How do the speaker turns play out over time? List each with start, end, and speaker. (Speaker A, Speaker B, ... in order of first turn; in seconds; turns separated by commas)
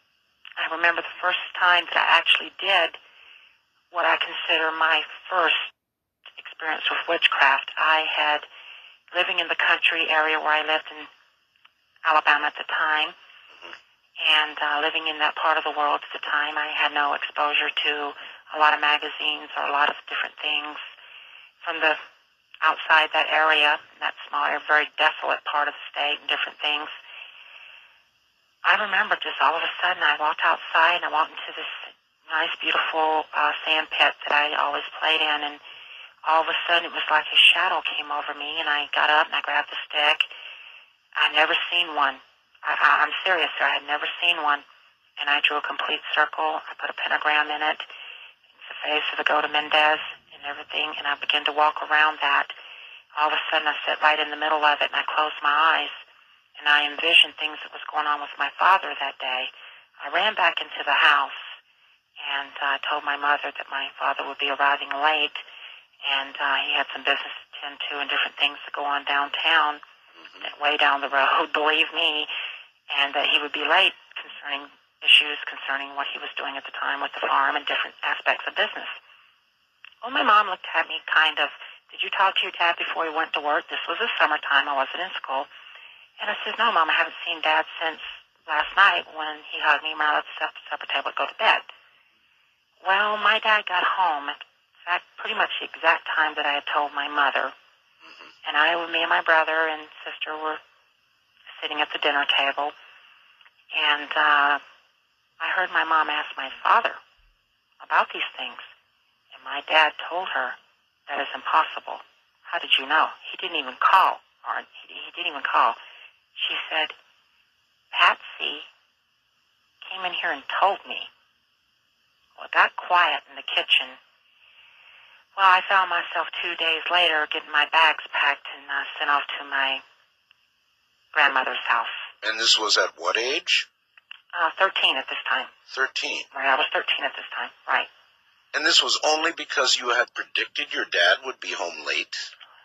Speaker A: 0.6-3.0, Speaker A: 3.9-5.7, Speaker A: 6.4-8.5, Speaker A: 9.1-11.1, Speaker A: 12.0-13.2, Speaker A: 14.2-20.8, Speaker A: 21.6-22.0, Speaker A: 22.6-26.9, Speaker A: 28.6-35.6, Speaker A: 36.2-40.3, Speaker A: 41.1-44.6, Speaker A: 45.2-47.9, Speaker A: 48.6-52.5, Speaker A: 53.1-56.0, Speaker A: 56.6-61.6, Speaker A: 62.2-65.4, Speaker A: 66.0-69.8, Speaker B: 70.2-70.5, Speaker A: 70.4-72.3, Speaker A: 72.9-79.0, Speaker A: 80.0-85.5, Speaker A: 86.2-91.7, Speaker A: 92.8-97.5, Speaker B: 98.0-98.3, Speaker A: 98.4-100.6, Speaker A: 101.5-102.7, Speaker A: 103.7-104.6, Speaker A: 105.4-107.0, Speaker A: 107.8-108.7, Speaker A: 109.3-115.8, Speaker A: 116.4-117.0, Speaker A: 117.9-118.7, Speaker A: 119.8-121.1, Speaker A: 122.4-124.0, Speaker A: 125.4-129.8, Speaker A: 131.1-132.0, Speaker B: 132.2-133.7, Speaker A: 134.3-135.5, Speaker B: 135.7-136.3, Speaker A: 136.3-137.9, Speaker B: 138.5-142.3